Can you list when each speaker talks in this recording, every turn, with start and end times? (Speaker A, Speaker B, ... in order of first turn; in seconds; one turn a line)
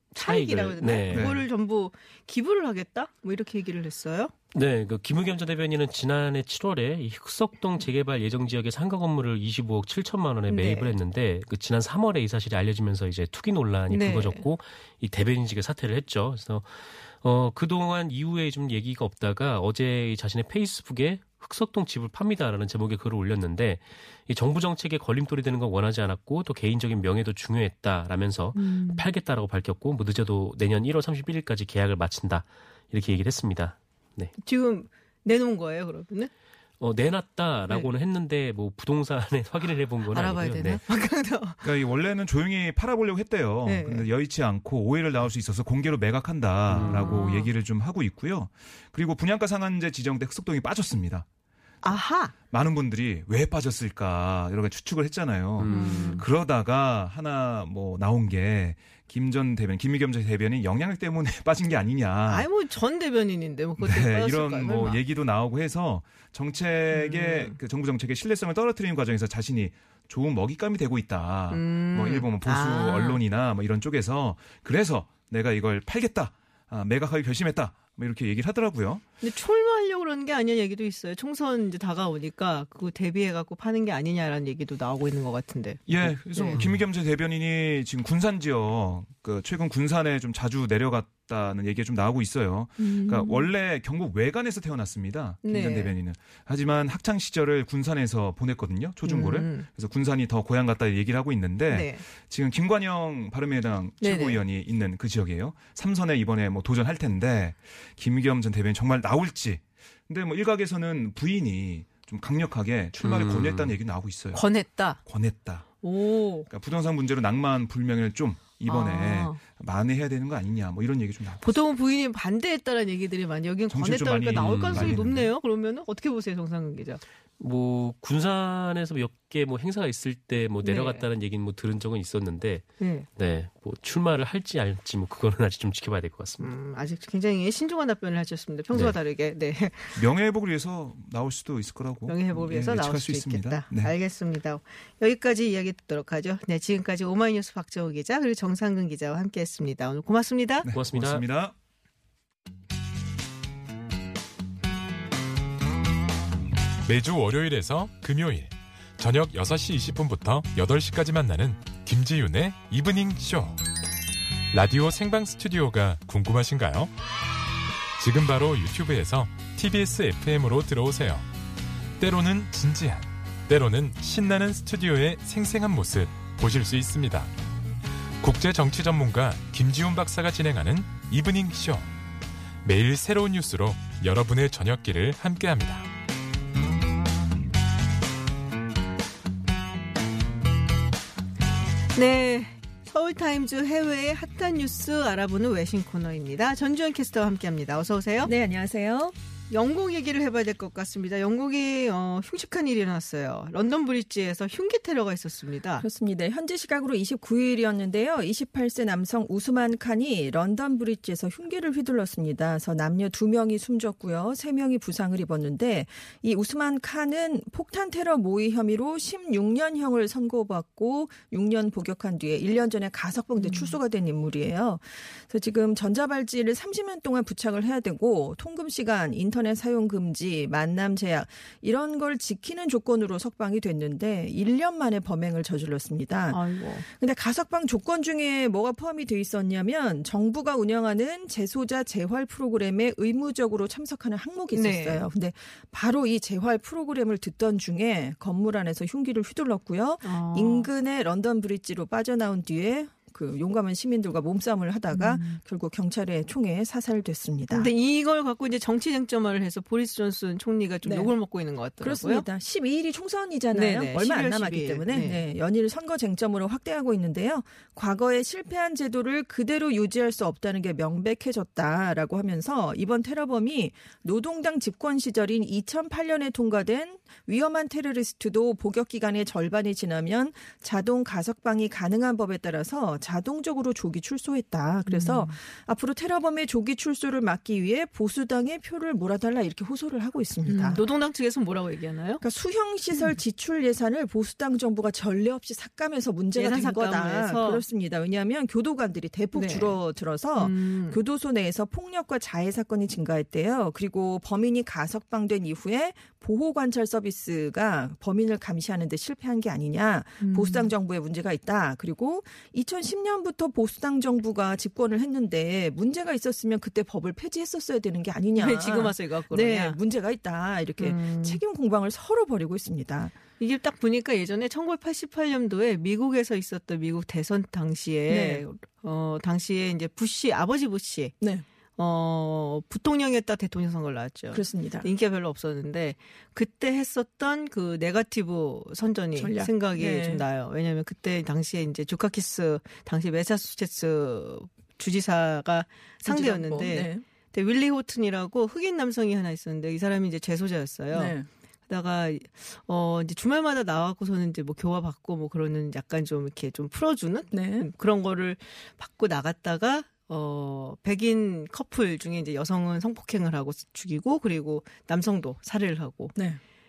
Speaker A: 0.1-1.4
Speaker B: 0.1-4.3
Speaker C: 1.1-1.4
Speaker A: 4.5-34.3
Speaker B: 10.5-10.9
Speaker B: 13.9-14.4
Speaker B: 28.5-29.0
Speaker B: 34.4-36.3
Speaker A: 36.8-40.8
Speaker B: 40.1-41.6
Speaker C: 41.6-51.2
Speaker B: 43.6-44.1
Speaker A: 46.7-47.2
Speaker B: 46.8-47.5
Speaker B: 51.8-52.3
Speaker C: 52.5-62.5
Speaker A: 55.6-56.2
Speaker B: 55.7-56.2
Speaker B: 62.3-65.0
Speaker C: 63.8-79.0
Speaker B: 66.9-67.6
Speaker B: 71.5-73.2
Speaker B: 79.2-86.6
Speaker C: 85.9-114.5
Speaker A: 86.5-86.8
Speaker B: 92.8-93.5
Speaker B: 95.4-95.9
Speaker B: 99.0-99.7
Speaker B: 101.7-102.0
Speaker B: 104.0-104.4
Speaker A: 113.0-113.8
Speaker B: 114.3-115.0
Speaker C: 115.0-115.7
Speaker B: 115.8-116.5
Speaker C: 116.5-121.6
Speaker B: 118.7-119.4
Speaker B: 121.4-127.0
Speaker C: 123.7-125.3
Speaker A: 124.3-125.0
Speaker A: 127.4-136.5
Speaker B: 130.6-131.1
Speaker B: 132.8-133.1
Speaker B: 136.4-140.0
Speaker C: 139.9-143.9
Speaker B: 142.1-150.7
Speaker C: 150.6-151.5
Speaker A: 150.7-151.2
Speaker D: 156.8-163.6
Speaker D: 164.5-166.9
Speaker D: 168.0-171.3
Speaker D: 172.0-177.3
Speaker D: 178.2-181.9
Speaker D: 182.6-185.9
Speaker B: 191.9-198.3
Speaker E: 198.2-199.1
Speaker B: 199.5-205.9
Speaker E: 205.8-257.7
Speaker B: 223.4-223.8
Speaker B: 236.3-236.8
Speaker B: 244.5-245.1
Speaker B: 250.0-250.7
Speaker B: 254.9-255.4
Speaker B: 257.5-262.2
Speaker E: 260.8-261.1
Speaker E: 261.8-290.8
Speaker B: 263.5-265.2
Speaker B: 284.9-285.4
Speaker B: 290.4-292.2
Speaker E: 292.2-323.2
Speaker B: 292.9-293.2
Speaker B: 296.3-297.6
Speaker B: 299.3-299.8
Speaker B: 300.4-301.0
Speaker B: 310.2-310.7
Speaker B: 318.4-319.8
Speaker B: 320.8-321.4
Speaker B: 323.4-331.1
Speaker E: 328.1-328.4
Speaker B: 331.8-351.1
Speaker E: 334.3-334.9
Speaker E: 339.1-340.2
Speaker E: 346.0-347.0
Speaker E: 350.9-351.3
Speaker B: 351.7-366.1
Speaker E: 357.3-357.7
Speaker E: 366.1-366.4